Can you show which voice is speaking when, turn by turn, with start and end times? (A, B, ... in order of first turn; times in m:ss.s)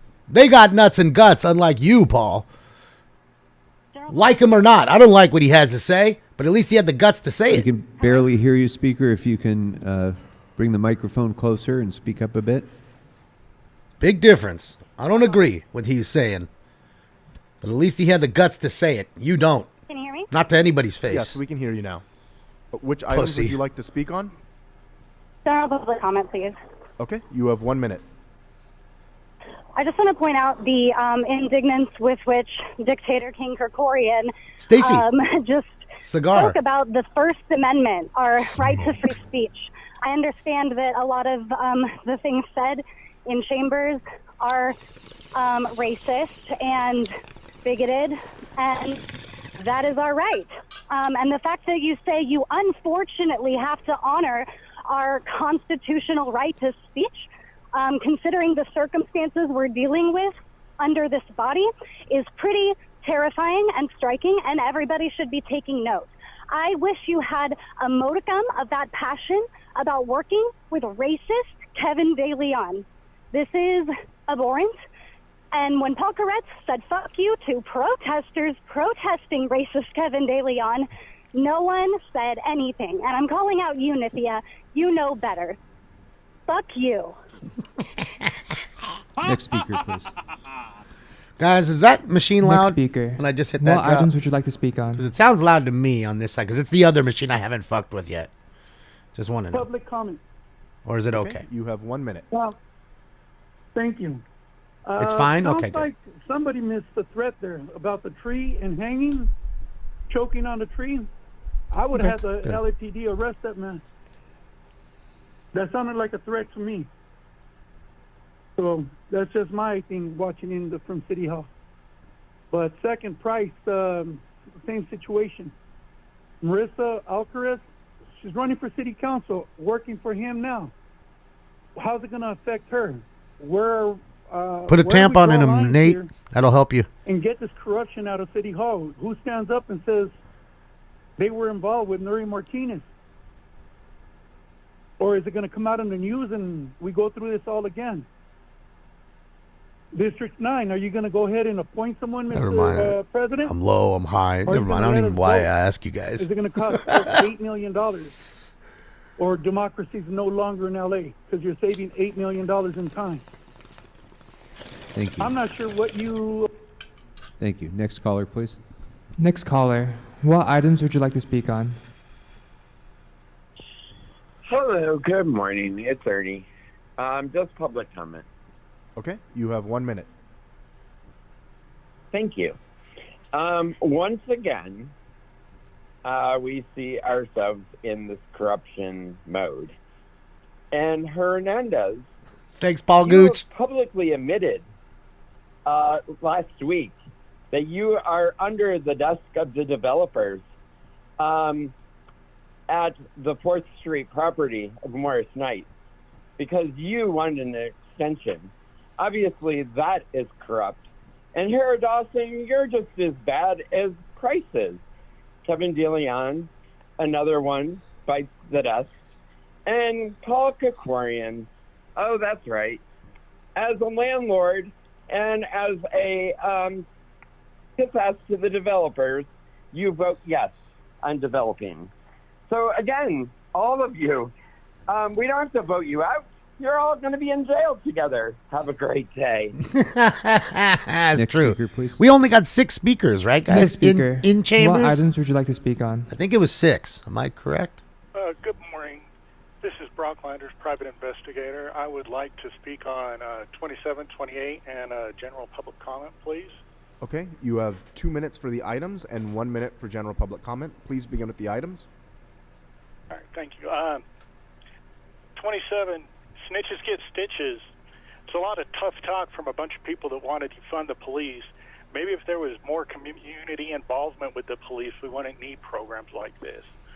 0:00.3-0:02.5 A
0:03.9-0:04.5 B
0:04.1-0:07.7 A
0:07.5-0:12.7 C
0:14.0-0:16.5 A
0:17.6-0:19.7 A
0:19.9-0:20.3 B
0:20.3-0:21.4 A
0:21.1-0:22.0 D
0:22.7-0:24.3 D
0:23.1-0:23.6 A
0:25.4-0:26.6 B
0:27.0-0:28.0 D
0:29.8-0:44.8 B
0:34.6-0:35.0 A
0:36.0-0:36.6 A
0:45.3-0:47.1 B
0:47.6-0:49.0 B
0:49.6-1:14.8 B
1:15.5-1:25.6 B
1:26.5-1:27.2 B
1:29.2-1:30.1 C
1:31.4-1:34.1 A
1:32.4-1:35.0 E
1:35.0-1:38.3 A
1:39.1-1:39.6 A
1:39.5-1:40.2 F
1:40.8-1:41.4 A
1:41.1-1:42.2 D
1:42.3-1:42.6 F
1:43.7-1:44.2 F
1:44.8-1:49.3 F
1:45.0-1:45.8 A
1:50.1-1:51.1 F
1:51.7-1:53.8 F
1:52.0-1:52.6 A
1:55.5-1:56.9 F
1:58.6-2:01.5 F
2:02.5-2:05.5 F
2:06.4-2:07.6 F
2:08.2-2:10.7 F
2:11.8-2:16.1 F
2:14.7-2:16.9 A
2:17.0-2:20.1 F
2:21.2-2:22.8 F
2:25.0-2:28.0 F
2:29.9-2:33.5 F
2:32.3-2:37.0 A
2:34.4-2:35.5 F
2:36.2-2:38.2 F
2:39.2-2:43.2 F
2:44.9-2:45.4 C
2:45.2-2:46.5 F
2:47.4-2:48.6 C
2:49.2-2:51.8 E
2:54.4-2:58.2 G
2:59.0-3:00.1 D
3:02.1-3:02.6 G
3:03.3-3:04.9 G
3:06.0-3:09.8 G
3:10.7-3:12.0 G
3:12.6-3:13.4 A
3:13.0-3:14.6 G
3:15.6-3:16.9 G
3:17.5-3:20.4 G
3:21.2-3:21.7 G
3:22.7-3:25.7 G
3:26.4-3:34.8 G
3:35.4-3:38.9 G
3:39.6-3:42.8 G
3:43.6-3:46.8 G
3:47.8-3:51.9 G
3:52.5-3:54.3 G
3:54.9-3:59.6 G
3:59.8-4:05.0 A
4:01.1-4:02.0 C
4:03.5-4:06.1 E
4:06.1-4:07.8 A
4:08.1-4:09.0 H
4:09.6-4:16.6 H
4:17.0-4:21.9 D
4:23.1-4:24.0 H
4:25.4-4:27.6 H
4:28.3-4:36.7 H